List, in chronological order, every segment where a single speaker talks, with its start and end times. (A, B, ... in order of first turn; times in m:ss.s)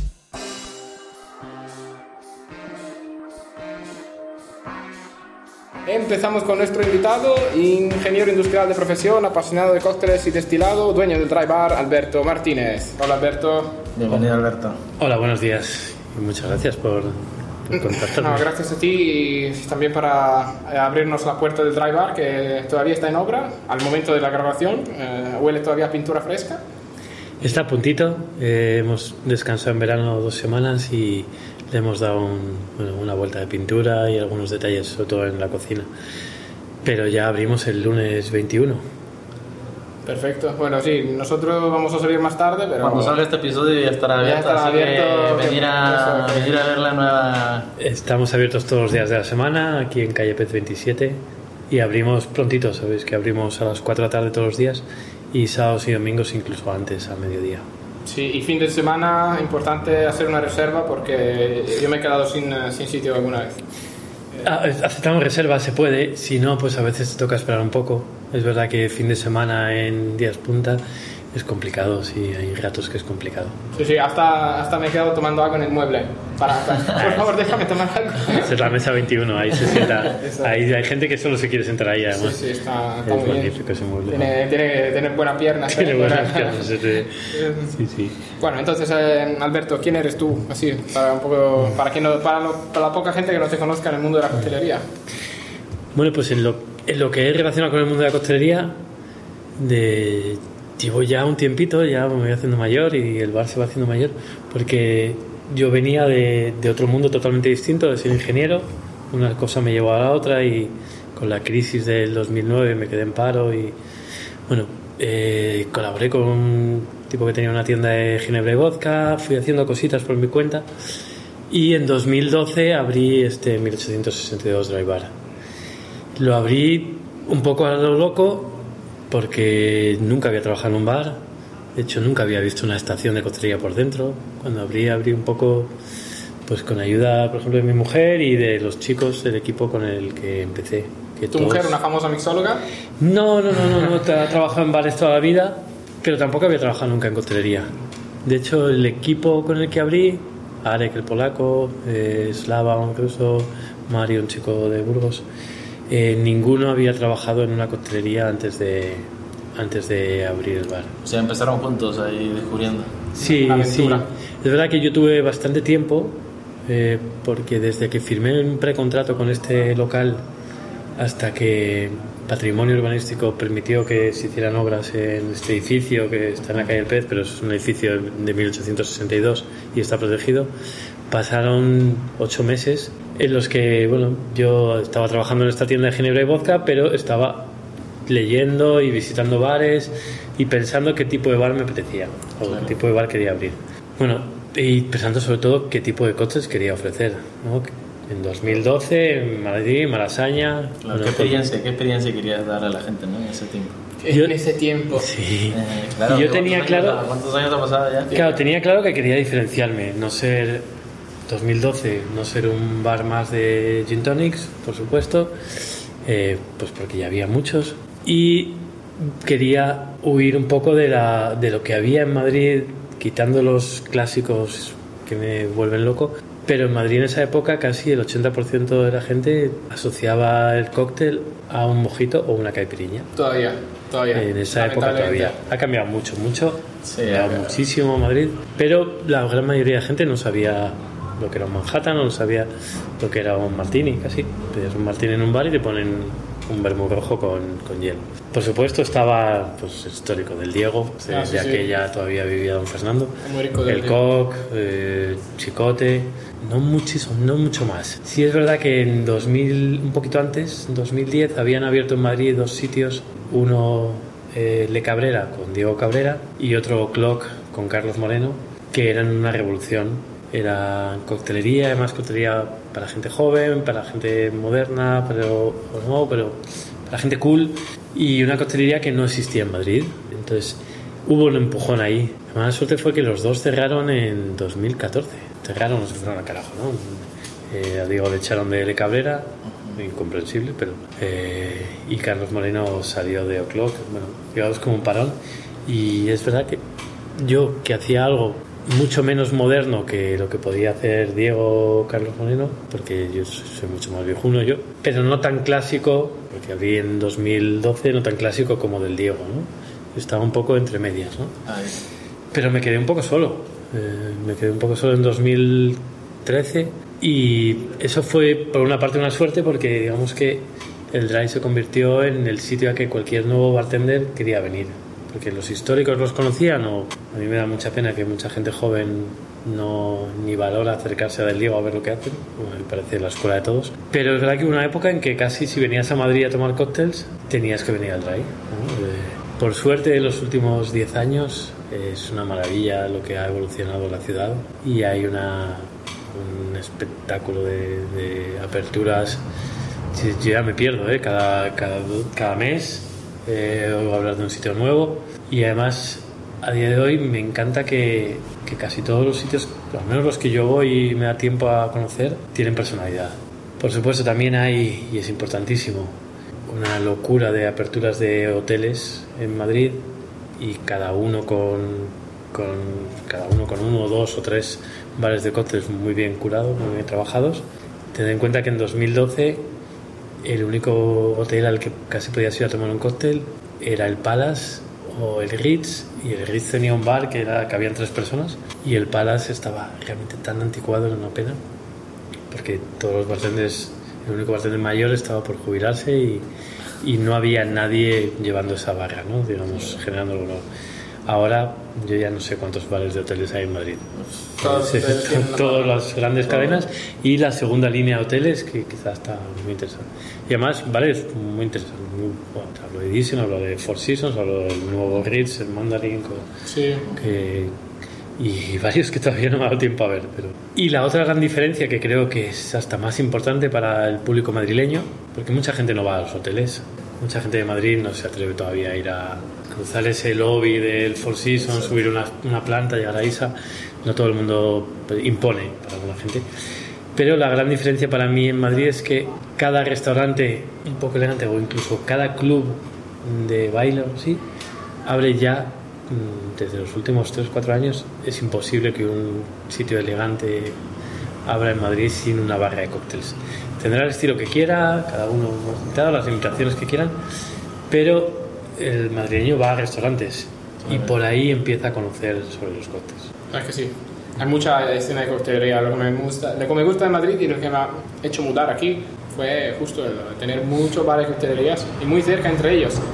0:05.9-0:13.8 A
0:14.0-0:14.8 B
0:15.0-0:18.5 C
0:17.7-0:26.6 A
0:27.4-0:35.9 C
0:36.8-0:38.8 C
0:40.0-0:43.2 A
0:42.8-0:47.7 B
0:44.2-0:46.6 A
0:47.8-0:57.6 C
0:58.1-1:03.6 A
1:04.4-1:10.8 C
1:11.3-1:13.6 C
1:13.8-1:18.7 A
1:16.9-1:17.4 C
1:18.3-1:22.4 C
1:19.7-1:20.5 A
1:22.1-1:23.6 A
1:23.0-1:24.3 C
1:24.1-1:26.7 A
1:25.7-1:28.2 C
1:27.3-1:27.7 A
1:28.3-1:34.9 A
1:35.9-1:38.8 C
1:39.6-1:53.8 C
1:54.5-2:00.7 C
2:01.5-2:05.1 C
2:06.2-2:08.6 C
2:09.1-2:11.2 C
2:11.8-2:15.7 C
2:16.4-2:21.8 C
2:21.3-2:22.6 A
2:23.0-2:27.7 C
2:28.2-2:35.2 C
2:35.9-2:40.9 C
2:41.0-2:43.0 B
2:43.2-2:44.1 A
2:43.2-2:50.2 C
2:51.0-3:00.5 C
3:01.1-3:07.6 C
3:08.1-3:21.5 C
3:12.5-3:12.7 B
3:20.8-3:23.8 B
3:24.0-3:25.1 A
3:24.1-3:24.4 C
3:24.9-3:27.1 C
3:25.5-3:28.1 B
3:28.1-3:28.4 A
3:28.1-3:30.7 C
3:31.3-3:35.3 C
3:36.0-3:53.1 C
3:53.2-3:55.4 A
3:54.1-4:56.6 C
3:56.8-3:57.6 B
4:11.1-4:11.7 A
4:13.2-4:14.0 A
4:57.2-5:11.4 C
5:11.5-5:11.8 B
5:12.3-5:49.2 C
5:49.9-6:09.8 C
6:10.4-6:19.4 C
6:20.2-6:31.4 C
6:32.3-6:36.3 C
6:36.8-6:40.4 C
6:41.0-6:56.3 C
6:44.0-6:44.9 B
6:44.4-6:45.7 A
6:46.3-6:46.6 B
6:56.4-6:56.9 A
6:56.9-6:57.6 C
6:58.2-7:16.2 C
7:16.9-7:24.2 C
7:24.8-7:30.6 C
7:31.2-7:37.0 C
7:37.7-7:43.1 C
7:40.6-7:40.9 B
7:43.3-7:52.9 A